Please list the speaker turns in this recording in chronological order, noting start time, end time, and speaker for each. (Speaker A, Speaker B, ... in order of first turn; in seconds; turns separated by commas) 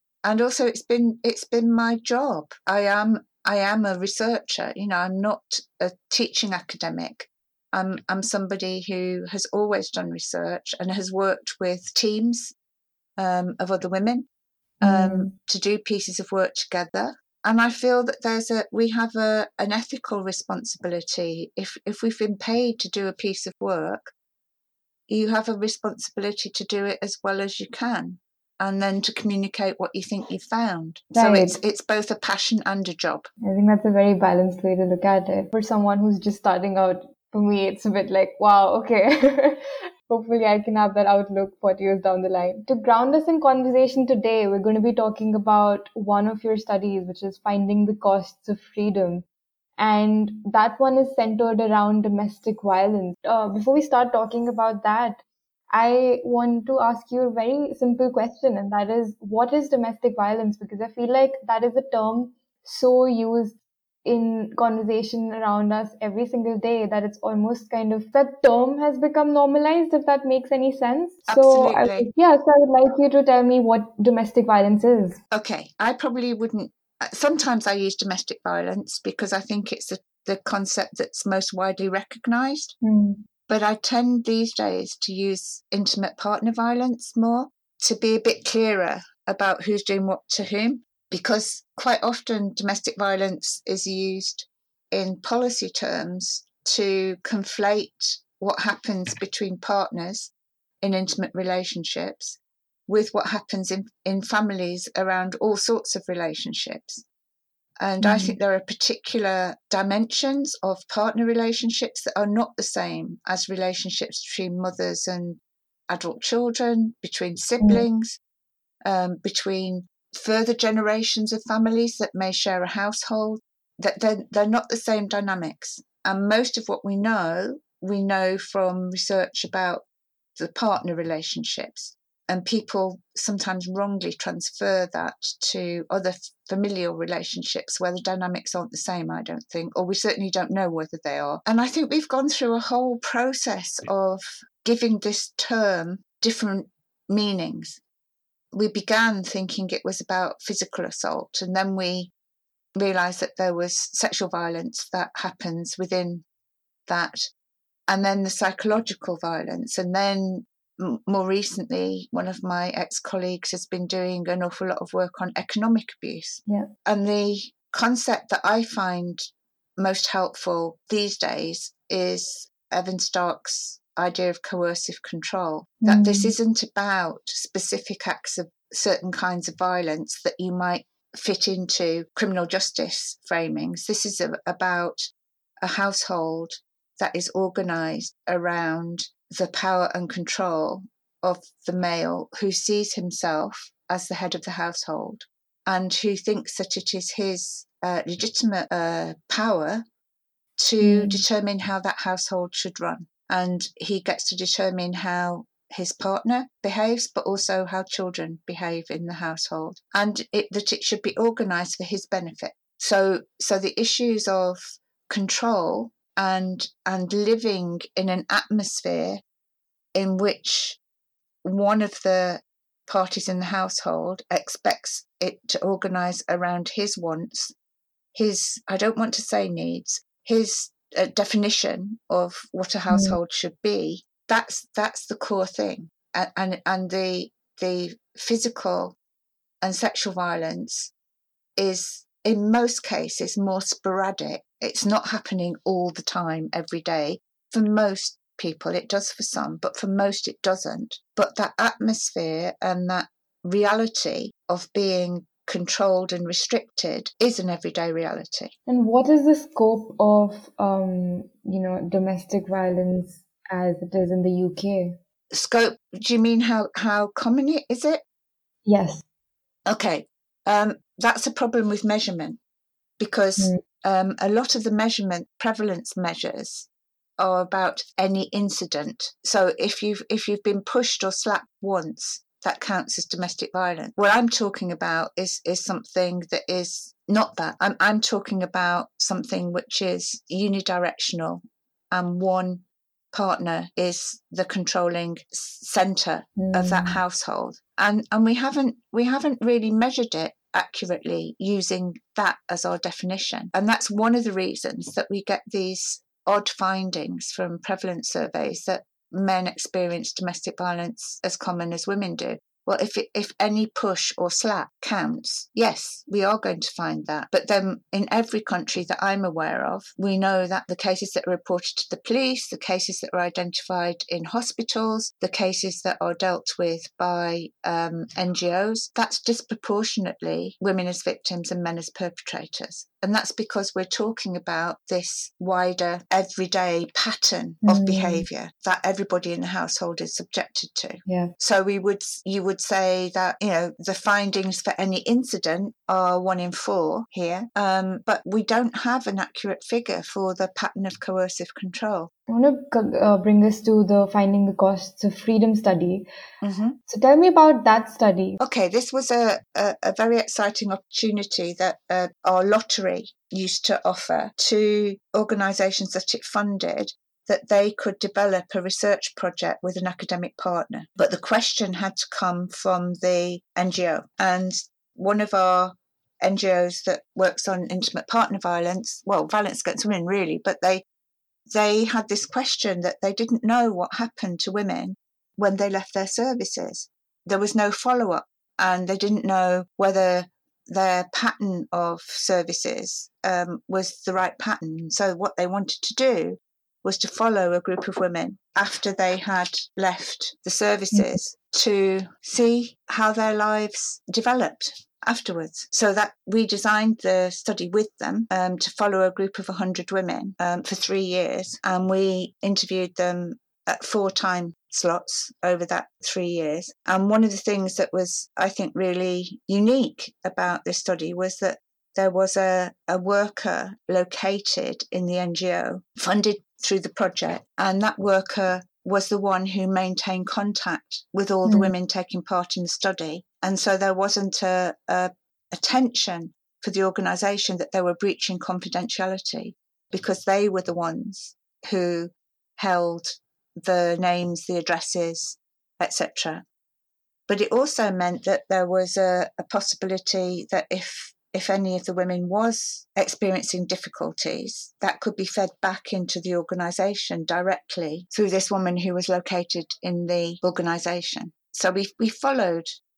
Speaker A: 0.2-12.5, Speaker A: 13.2-14.3, Speaker B: 14.8-15.3, Speaker A: 14.8-24.1, Speaker A: 25.1-33.3, Speaker B: 31.1-31.6, Speaker B: 33.4-49.3, Speaker B: 49.8-75.2, Speaker A: 71.3-72.1, Speaker A: 75.3-82.8, Speaker B: 82.8-83.2, Speaker A: 83.5-107.0, Speaker A: 107.8-118.2, Speaker B: 108.0-108.4, Speaker B: 117.6-117.9, Speaker A: 118.8-129.8, Speaker A: 130.4-147.8, Speaker A: 148.5-152.1, Speaker A: 152.8-156.2, Speaker A: 156.9-157.3, Speaker A: 157.9-169.2, Speaker A: 169.8-185.1, Speaker B: 175.8-176.3, Speaker A: 185.6-199.8, Speaker A: 200.6-219.2, Speaker B: 200.8-201.2, Speaker A: 219.9-220.8, Speaker A: 221.4-227.5, Speaker A: 228.1-239.0, Speaker B: 232.9-233.2, Speaker A: 239.6-240.9, Speaker A: 241.6-258.5, Speaker B: 258.7-265.0, Speaker A: 265.3-268.0, Speaker B: 268.6-269.0, Speaker A: 269.7-272.4, Speaker A: 273.0-276.7, Speaker A: 277.2-352.1, Speaker B: 296.4-297.0, Speaker B: 337.6-338.3, Speaker B: 341.1-341.3, Speaker B: 352.3-356.1, Speaker A: 356.4-356.8, Speaker B: 356.9-358.4, Speaker A: 358.4-380.9, Speaker A: 381.5-446.4, Speaker B: 431.4-431.7, Speaker A: 447.3-462.7